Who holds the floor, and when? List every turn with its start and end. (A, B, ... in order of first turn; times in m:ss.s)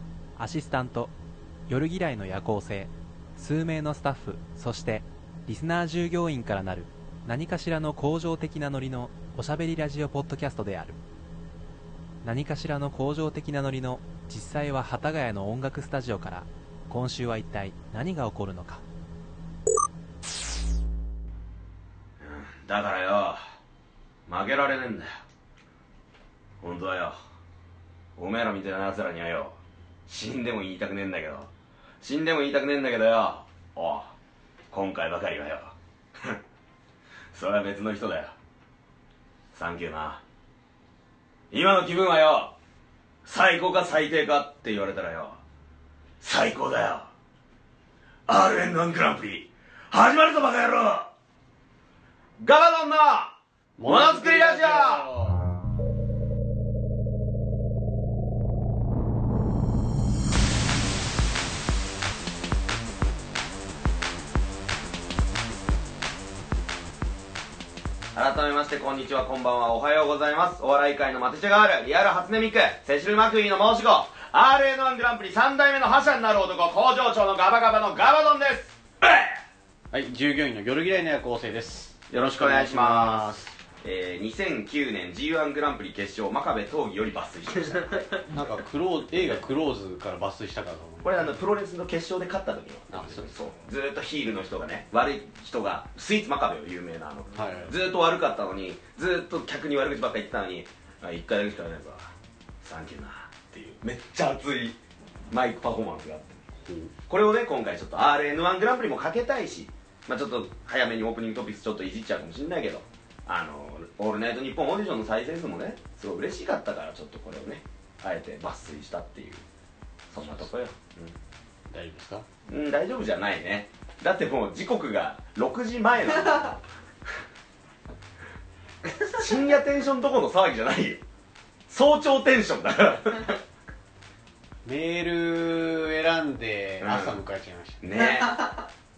0:00.4-0:01.1 A
0:01.7-0:11.0 A
0:12.2-0:18.8 A
0:22.2-0:23.4 B
0:24.3-0:25.1 B
0:26.6-0:27.2 B
0:28.2-0:31.5 B
0:32.0-0:34.1 B
0:34.7-0:36.4 B
0:37.3-0:38.3 B
0:39.5-0:40.2 B
0:41.5-0:42.5 B
0:43.2-0:45.4 B
0:46.2-0:47.1 B
0:48.3-0:51.1 B
0:52.4-0:55.1 B
0:53.8-0:55.4 C
1:08.1-1:19.3 B
1:19.9-1:23.5 C
1:22.1-1:28.1 B
1:28.3-1:31.2 C
1:31.0-1:44.8 B
1:32.9-1:33.3 C
1:37.3-1:37.8 C
1:45.3-1:46.4 B
1:46.6-1:46.9 C
1:47.1-1:59.4 B
2:00.1-2:01.2 B
2:01.7-2:02.2 C
2:02.5-2:06.6 B
2:09.0-2:11.0 B
2:11.7-2:13.4 B
2:14.6-2:17.9 C
2:16.8-2:17.2 B
2:17.8-2:18.6 B